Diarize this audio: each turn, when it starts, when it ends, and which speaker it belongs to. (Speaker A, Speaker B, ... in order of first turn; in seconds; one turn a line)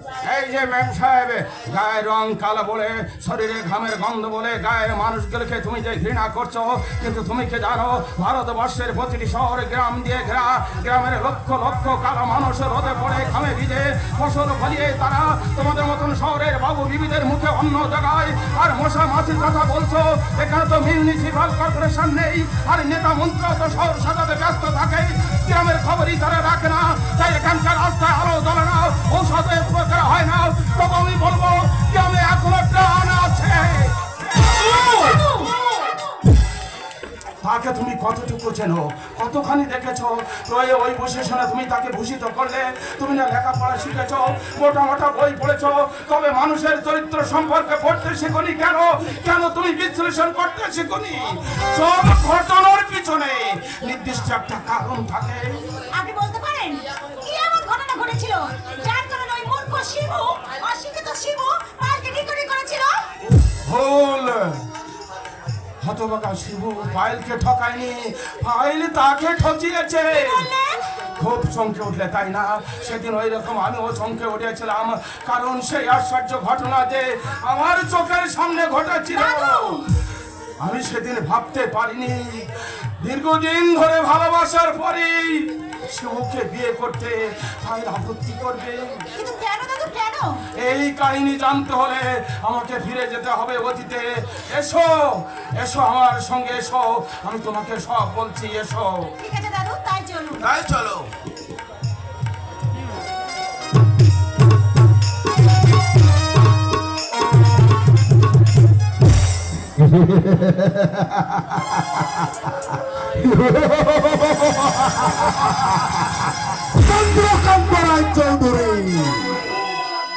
Speaker A: 0.2-35.5
Speaker B: 34.7-35.5
Speaker A: 37.4-55.6
Speaker B: 55.9-62.9
Speaker A: 63.6-64.6
Speaker A: 65.8-70.5
Speaker B: 70.1-70.8
Speaker A: 71.2-79.8
Speaker B: 79.1-79.8
Speaker A: 80.6-82.5
Speaker A: 83.0-89.0
Speaker B: 89.1-90.4
Speaker A: 90.6-99.0
Speaker B: 99.2-100.5
Speaker C: 109.8-112.1
Speaker C: 113.1-119.4